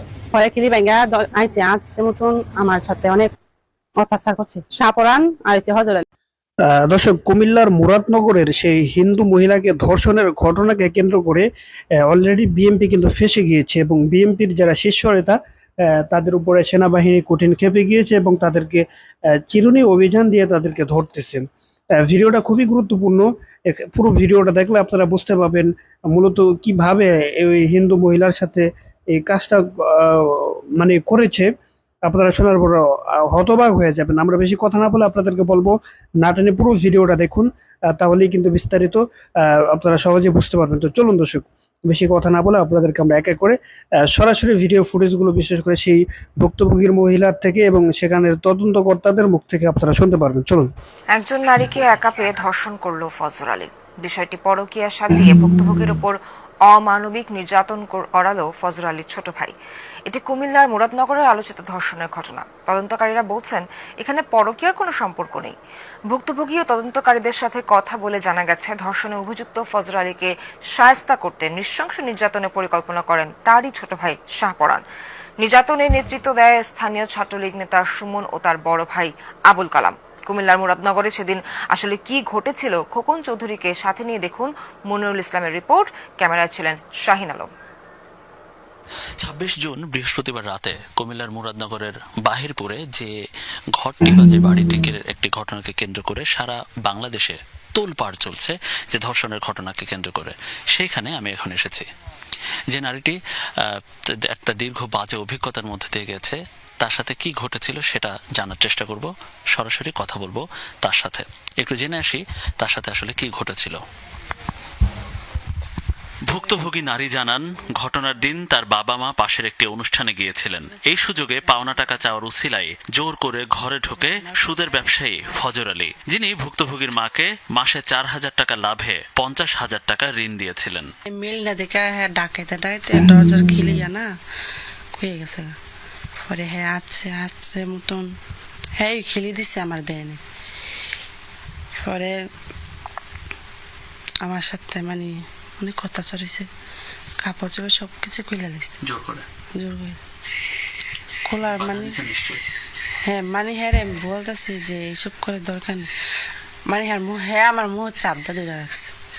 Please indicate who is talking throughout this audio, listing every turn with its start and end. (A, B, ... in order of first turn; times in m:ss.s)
0:00.3-0:03.3 A
0:04.0-0:06.0 A
0:06.7-0:11.4 B
0:12.0-0:15.4 B
0:16.1-0:18.8 B
0:19.5-0:21.4 B
0:22.0-0:31.5 B
0:32.0-0:39.0 B
0:39.7-0:43.6 B
0:44.1-0:50.7 B
0:51.1-0:56.2 C
0:56.7-0:59.5 C
1:00.1-1:05.6 C
1:06.1-1:14.8 C
1:15.4-1:27.5 C
1:29.2-1:33.1 D
1:33.8-1:41.8 D
1:42.7-1:43.2 D
1:43.8-1:53.8 D
1:56.3-2:10.9 D
2:11.2-2:14.0 E
2:15.0-2:15.5 E
2:16.3-2:18.0 E
2:18.8-2:20.2 E
2:21.9-2:22.1 E
2:24.3-2:26.5 E
2:27.2-2:28.7 E
2:28.8-2:29.2 D
2:29.6-2:29.9 E
2:31.3-2:31.9 E
2:31.4-2:32.4 D
2:33.1-2:35.8 E
2:36.7-2:38.9 E